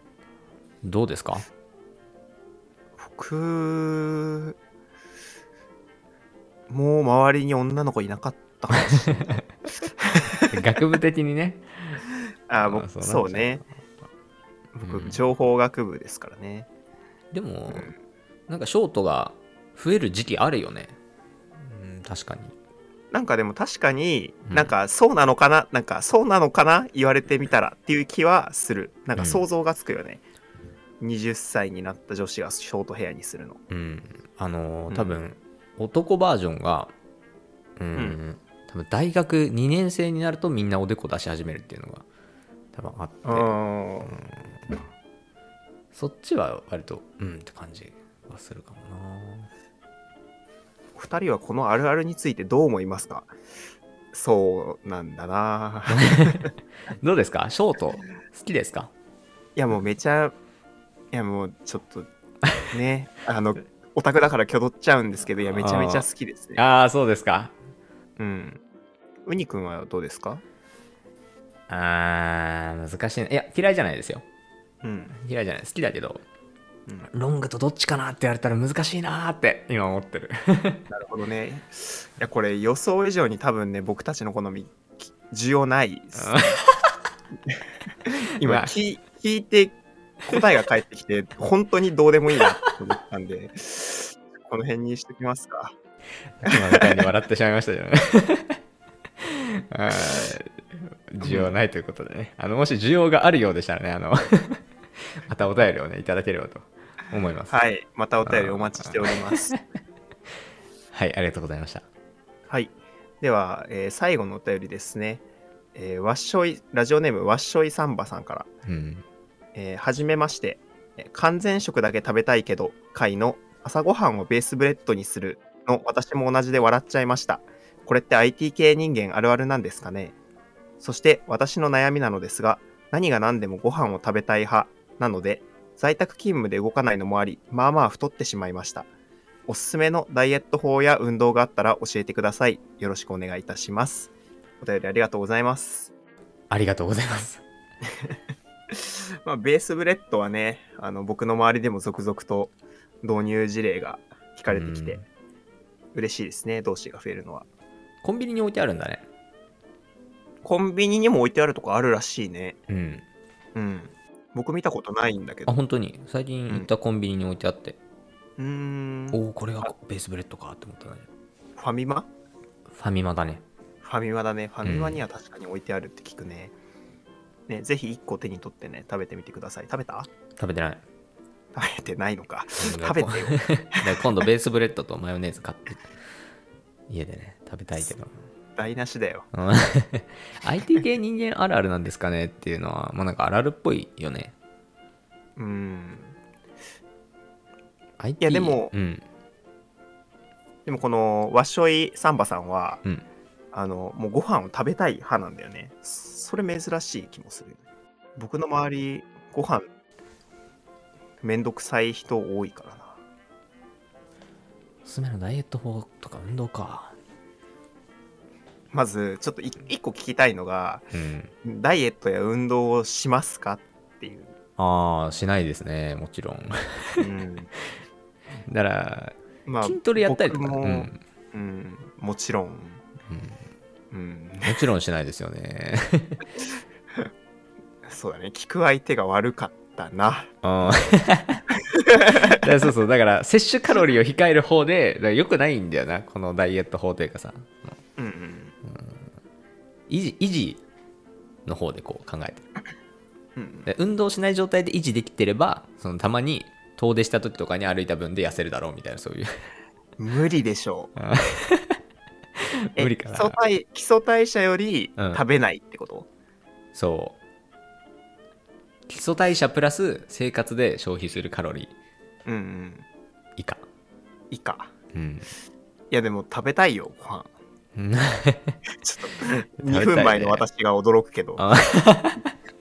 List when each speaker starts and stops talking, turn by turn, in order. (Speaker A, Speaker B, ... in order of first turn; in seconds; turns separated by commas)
Speaker A: 0.8-1.5, Speaker B: 3.0-4.6, Speaker B: 6.7-9.4, Speaker A: 8.7-9.4, Speaker B: 10.0-10.5, Speaker A: 10.5-12.0, Speaker B: 12.5-13.6, Speaker A: 12.6-13.7, Speaker B: 14.8-16.7, Speaker A: 14.8-15.2, Speaker A: 17.3-17.9, Speaker A: 18.5-21.0, Speaker A: 21.6-22.5, Speaker B: 23.1-30.2, Speaker A: 24.4-24.7, Speaker A: 29.2-29.4, Speaker B: 31.0-33.6, Speaker A: 33.7-36.9, Speaker B: 34.9-35.2, Speaker A: 37.8-42.0, Speaker A: 42.7-43.5, Speaker B: 43.2-44.1, Speaker A: 44.0-44.6, Speaker A: 45.9-49.5, Speaker B: 51.0-53.3, Speaker B: 54.1-56.5, Speaker A: 55.9-58.9, Speaker B: 59.6-60.4, Speaker B: 61.1-62.1, Speaker B: 62.7-66.6, Speaker A: 65.5-67.5, Speaker B: 68.2-68.6, Speaker B: 69.3-70.4, Speaker A: 71.7-74.2, Speaker B: 74.8-75.2, Speaker A: 75.1-76.2, Speaker A: 77.1-80.8, Speaker B: 80.9-86.6, Speaker A: 86.2-87.0, Speaker B: 87.5-95.8, Speaker A: 88.4-88.7, Speaker A: 92.4-92.7, Speaker A: 96.4-98.6, Speaker B: 96.5-97.0, Speaker A: 99.2-104.6, Speaker B: 101.2-101.5, Speaker A: 105.2-107.6, Speaker B: 107.5-109.5, Speaker A: 108.2-109.6, Speaker A: 110.9-111.8, Speaker B: 112.5-115.2, Speaker B: 115.8-118.5, Speaker A: 118.7-119.0, Speaker B: 119.5-130.2, Speaker B: 130.8-138.9, Speaker B: 139.5-145.9, Speaker A: 146.5-147.4, Speaker B: 147.9-148.2, Speaker B: 148.7-155.0, Speaker A: 154.5-155.1, Speaker B: 155.9-157.5, Speaker A: 158.0-159.1, Speaker B: 160.4-162.6, Speaker A: 162.7-163.1, Speaker B: 163.6-165.5, Speaker A: 165.5-167.8, Speaker B: 168.4-169.2, Speaker A: 169.1-171.1, Speaker B: 171.6-172.1, Speaker A: 172.7-173.4, Speaker B: 173.8-176.5, Speaker A: 174.6-175.0, Speaker B: 177.5-180.1, Speaker A: 180.3-180.8, Speaker B: 181.5-183.9, Speaker A: 182.6-185.8, Speaker A: 186.9-188.2, Speaker B: 188.6-189.3, Speaker A: 189.3-194.3, Speaker B: 195.4-196.2, Speaker A: 198.0-199.0, Speaker B: 198.2-198.7, Speaker B: 200.7-202.8, Speaker B: 203.5-207.6, Speaker B: 208.2-209.7, Speaker B: 211.2-213.0, Speaker A: 214.8-217.0, Speaker B: 218.7-220.9, Speaker A: 220.9-221.3, Speaker B: 221.4-224.3, Speaker A: 224.6-227.1, Speaker B: 227.0-227.5, Speaker A: 228.5-231.0, Speaker B: 229.4-232.8, Speaker A: 233.1-233.4, Speaker B: 233.9-234.6, Speaker A: 234.4-236.2, Speaker B: 237.8-240.3, Speaker A: 240.4-241.4, Speaker B: 241.7-242.4, Speaker A: 242.1-247.8, Speaker B: 248.0-248.5, Speaker A: 248.6-249.1, Speaker A: 249.9-250.6, Speaker A: 251.4-252.4, Speaker B: 253.4-253.7, Speaker A: 253.7-259.5, Speaker B: 260.0-260.9, Speaker A: 261.0-261.8, Speaker A: 262.4-263.4, Speaker B: 262.8-266.1, Speaker A: 265.0-265.2, Speaker A: 266.7-267.2, Speaker A: 268.9-271.7, Speaker B: 272.2-272.9, Speaker A: 273.4-273.6, Speaker B: 274.3-274.7, Speaker A: 274.9-275.3, Speaker B: 275.9-277.3, Speaker A: 277.8-278.6, Speaker B: 278.7-281.5, Speaker A: 279.2-280.5, Speaker A: 281.4-282.3